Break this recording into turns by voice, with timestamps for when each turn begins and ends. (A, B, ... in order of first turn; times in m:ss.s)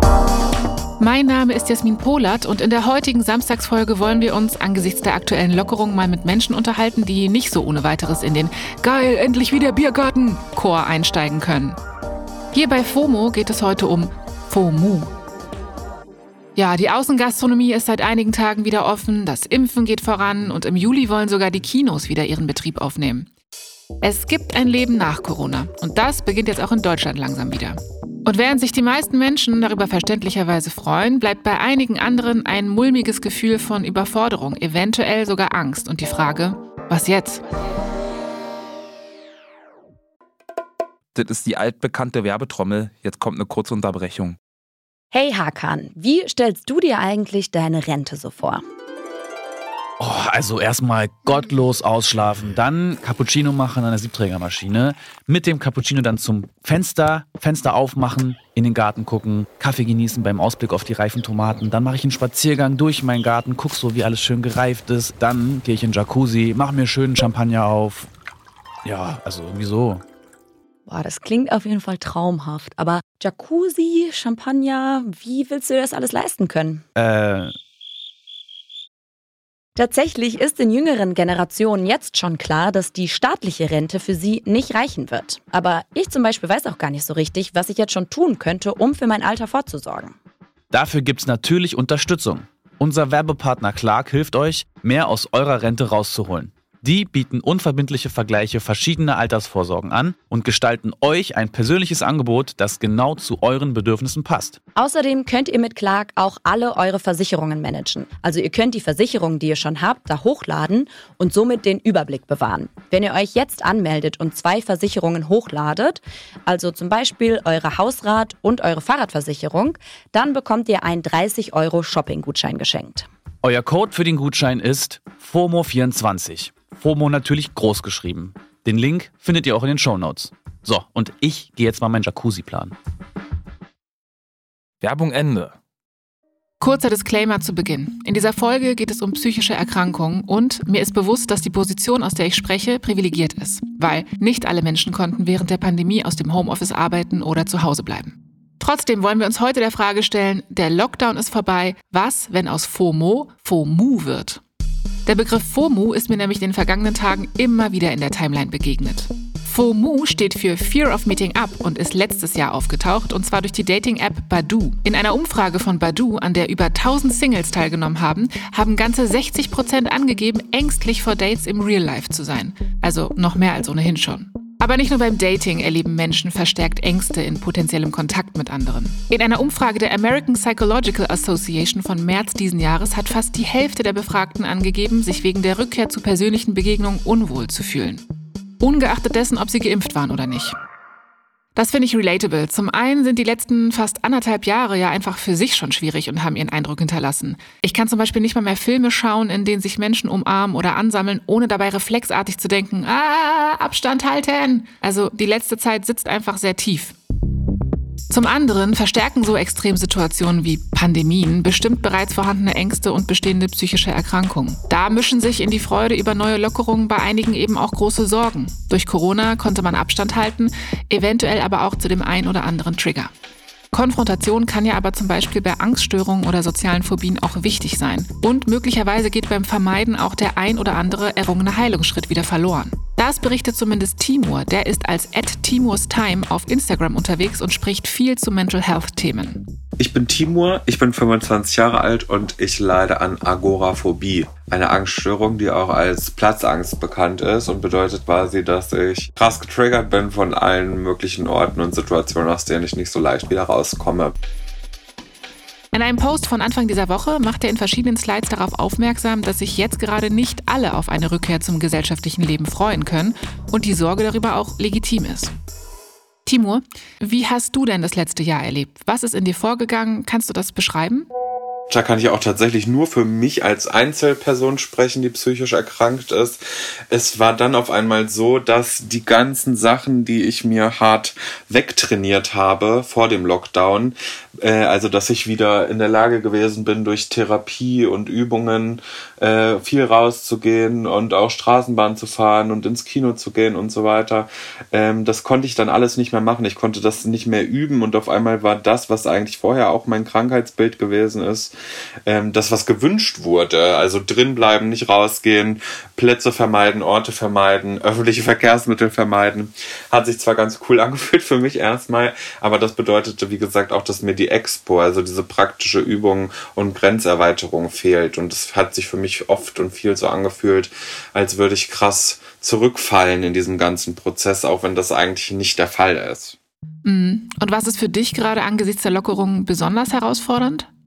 0:01.0-0:11.8 A
0:12.5-0:15.1 A
0:16.6-0:23.3 A
0:24.0-0:37.4 A
0:41.1-0:44.4 B
0:45.1-0:48.6 C
0:50.0-1:08.1 D
1:08.8-1:10.0 D
1:10.9-1:16.8 C
1:17.0-1:17.5 D
1:19.8-1:30.1 C
1:30.7-1:44.6 D
1:44.8-2:03.1 C
2:03.4-2:12.7 D
2:14.8-2:15.6 B
2:16.6-2:34.4 A
2:35.0-3:08.1 A
3:08.6-3:10.6 A
3:11.6-3:27.0 A
3:28.1-3:43.1 A
3:43.7-3:59.5 A
3:59.8-4:14.1 E
4:15.7-4:25.3 A
4:26.3-4:31.1 A
4:31.7-4:36.4 E
4:36.9-5:01.6 E
5:02.1-5:26.4 E
5:26.8-5:30.7 A